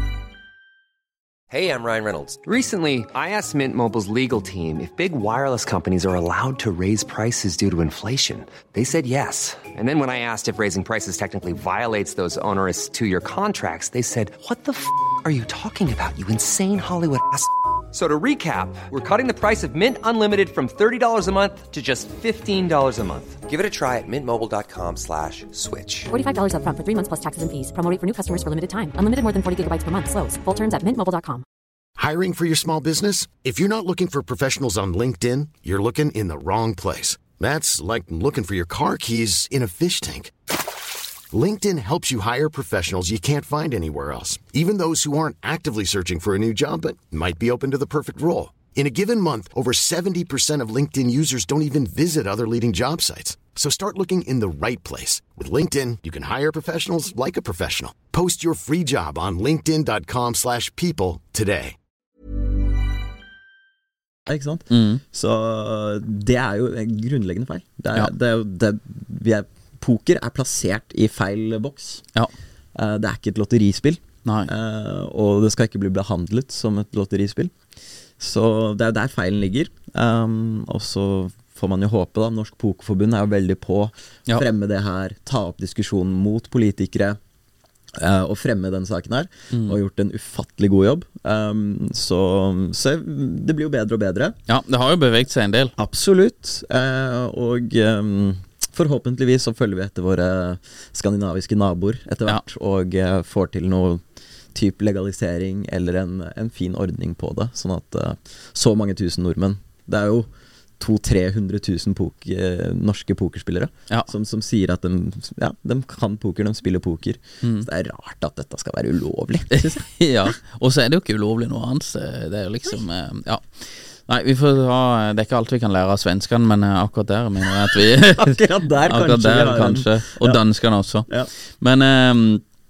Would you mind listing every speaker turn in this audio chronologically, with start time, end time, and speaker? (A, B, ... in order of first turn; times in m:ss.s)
0:01.5-0:26.1 A
0:26.1-0:31.4 B
0:32.0-0:40.3 C
0:41.3-1:01.8 C
1:04.3-1:12.0 D
1:04.7-1:05.0 E
1:12.8-1:17.5 D
1:14.2-1:14.5 E
1:18.2-1:27.2 D
1:28.0-1:34.4 D
1:29.5-1:29.8 E
1:34.5-1:35.8 E
1:35.8-1:44.0 D
1:44.5-1:59.9 D
1:59.5-2:11.1 E
2:08.1-2:10.4 D
2:11.6-2:12.4 E